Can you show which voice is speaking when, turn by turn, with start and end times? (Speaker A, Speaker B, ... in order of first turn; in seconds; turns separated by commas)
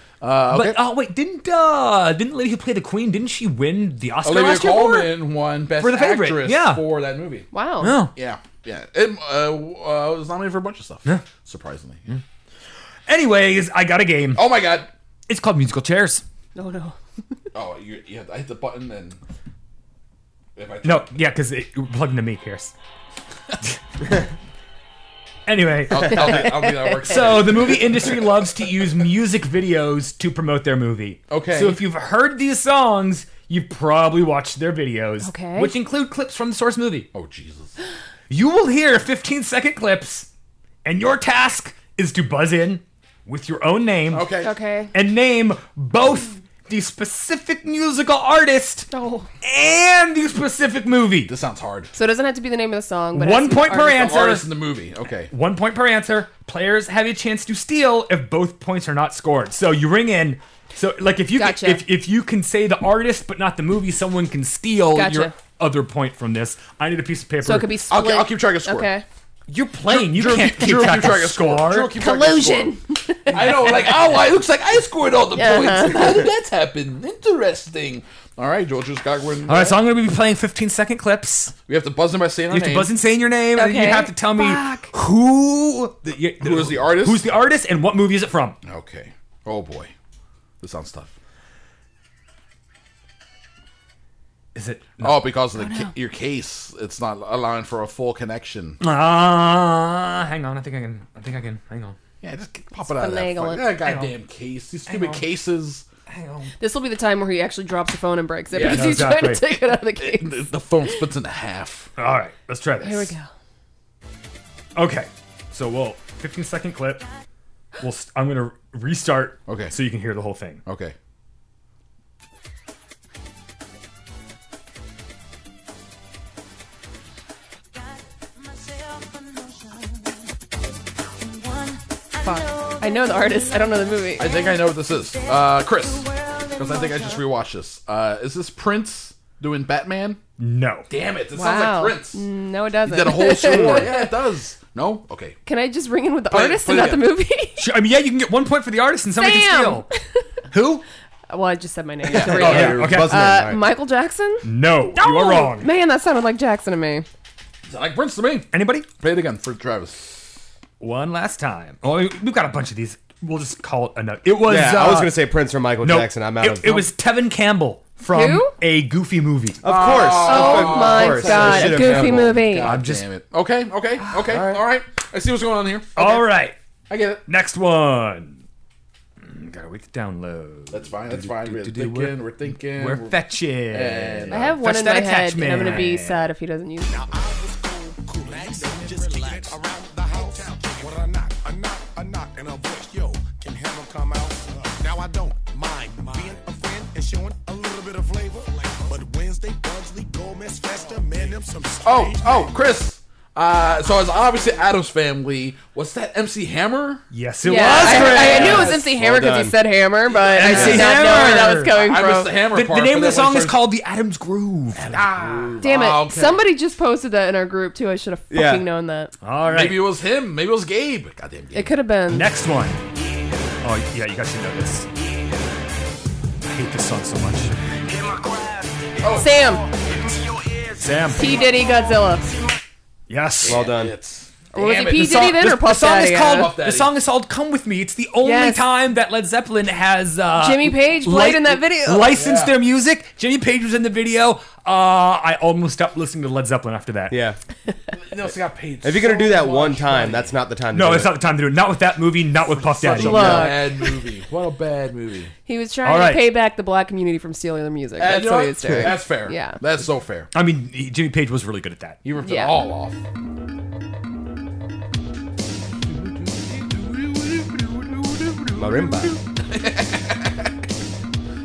Speaker A: 0.2-0.8, Speaker B: 0.5-5.2, Speaker A: 4.2-7.5, Speaker B: 5.8-6.8, Speaker C: 7.5-8.0, Speaker B: 7.8-8.1, Speaker A: 8.1-12.1, Speaker B: 13.1-14.7, Speaker A: 14.3-14.9, Speaker B: 15.3-16.2, Speaker C: 16.6-17.0, Speaker A: 17.5-19.2, Speaker A: 20.6-21.1, Speaker B: 20.8-22.7, Speaker B: 25.4-37.1, Speaker A: 25.9-28.4, Speaker A: 31.3-31.8, Speaker C: 35.2-35.7, Speaker A: 37.1-37.7, Speaker B: 38.3-40.3, Speaker B: 40.9-44.3, Speaker A: 44.1-44.5, Speaker C: 44.4-44.9, Speaker B: 44.9-48.9, Speaker C: 48.9-49.3, Speaker B: 49.4-51.3, Speaker A: 51.3-51.9, Speaker C: 51.9-54.2, Speaker B: 53.1-54.5, Speaker A: 53.8-55.3, Speaker B: 55.3-67.7, Speaker C: 61.4-61.8, Speaker C: 64.9-65.3, Speaker C: 67.4-69.0, Speaker A: 67.9-68.9, Speaker B: 69.5-71.9, Speaker A: 69.9-79.8, Speaker C: 72.0-73.7, Speaker C: 75.3-76.3, Speaker B: 79.5-81.6, Speaker A: 81.7-82.9, Speaker B: 82.5-88.6, Speaker C: 83.6-84.9, Speaker A: 86.4-87.3, Speaker A: 88.6-89.9, Speaker A: 90.6-91.1, Speaker B: 94.5-95.2, Speaker A: 95.0-98.8, Speaker C: 95.6-95.9, Speaker B: 98.8-102.0, Speaker A: 102.2-105.8, Speaker C: 102.9-103.7, Speaker B: 103.8-104.1, Speaker B: 104.9-105.3, Speaker B: 106.1-106.5, Speaker C: 106.6-110.4, Speaker A: 108.5-109.2, Speaker B: 108.6-109.4, Speaker A: 110.0-111.9, Speaker B: 112.0-113.1, Speaker C: 112.8-113.3, Speaker B: 114.8-117.1, Speaker B: 117.8-120.6, Speaker A: 119.5-119.7, Speaker A: 120.7-120.9, Speaker C: 132.2-134.3, Speaker A: 134.2-140.2, Speaker B: 140.4-140.9, Speaker A: 140.9-142.2, Speaker C: 141.3-144.1, Speaker A: 142.8-145.4, Speaker D: 143.5-143.8, Speaker C: 145.4-147.6, Speaker A: 146.3-147.1, Speaker B: 147.6-149.9, Speaker C: 149.2-150.0, Speaker B: 150.5-150.8, Speaker C: 151.3-157.1, Speaker A: 152.1-153.1, Speaker D: 152.1-153.7, Speaker B: 152.2-153.5, Speaker B: 154.4-155.7, Speaker A: 157.7-160.0, Speaker B: 158.5-158.9, Speaker B: 160.8-165.2, Speaker D: 164.4-166.9, Speaker B: 165.8-169.6, Speaker C: 168.1-168.5, Speaker D: 169.6-172.4, Speaker A: 169.6-176.3, Speaker C: 170.1-172.7, Speaker B: 172.6-173.1, Speaker D: 174.2-174.6, Speaker B: 175.9-176.6, Speaker A: 176.9-177.2, Speaker B: 177.3-178.4, Speaker B: 179.2-186.2, Speaker A: 180.7-184.6, Speaker C: 184.3-187.1, Speaker E: 186.9-202.5, Speaker A: 201.8-208.8, Speaker B: 207.1-208.8, Speaker C: 207.4-212.3, Speaker D: 208.2-209.6, Speaker A: 210.2-213.6, Speaker B: 210.3-211.8, Speaker D: 210.6-210.8, Speaker B: 212.5-215.1, Speaker A: 214.7-216.5, Speaker D: 215.2-215.6, Speaker C: 215.6-219.1, Speaker D: 218.3-218.7, Speaker B: 219.2-219.9, Speaker A: 219.4-221.7, Speaker C: 221.5-222.3, Speaker B: 222.1-222.8, Speaker B: 223.6-224.9, Speaker B: 226.4-227.6, Speaker A: 229.0-229.4, Speaker C: 229.1-229.7, Speaker B: 230.8-231.4, Speaker C: 231.1-232.4, Speaker B: 233.1-233.7, Speaker A: 233.4-235.3, Speaker D: 233.4-233.9, Speaker C: 234.5-236.5, Speaker B: 234.9-247.2, Speaker A: 236.2-236.9, Speaker C: 238.2-238.7, Speaker C: 240.4-242.2, Speaker A: 242.1-242.6, Speaker D: 247.1-247.4, Speaker A: 247.9-250.3, Speaker D: 248.8-251.2, Speaker B: 250.7-253.6, Speaker A: 252.4-255.3, Speaker C: 252.9-253.9, Speaker C: 255.4-259.6, Speaker B: 255.8-256.3, Speaker A: 258.0-260.3, Speaker B: 260.3-262.0, Speaker A: 262.0-263.0, Speaker C: 262.2-262.6, Speaker A: 265.9-270.5, Speaker D: 268.6-269.1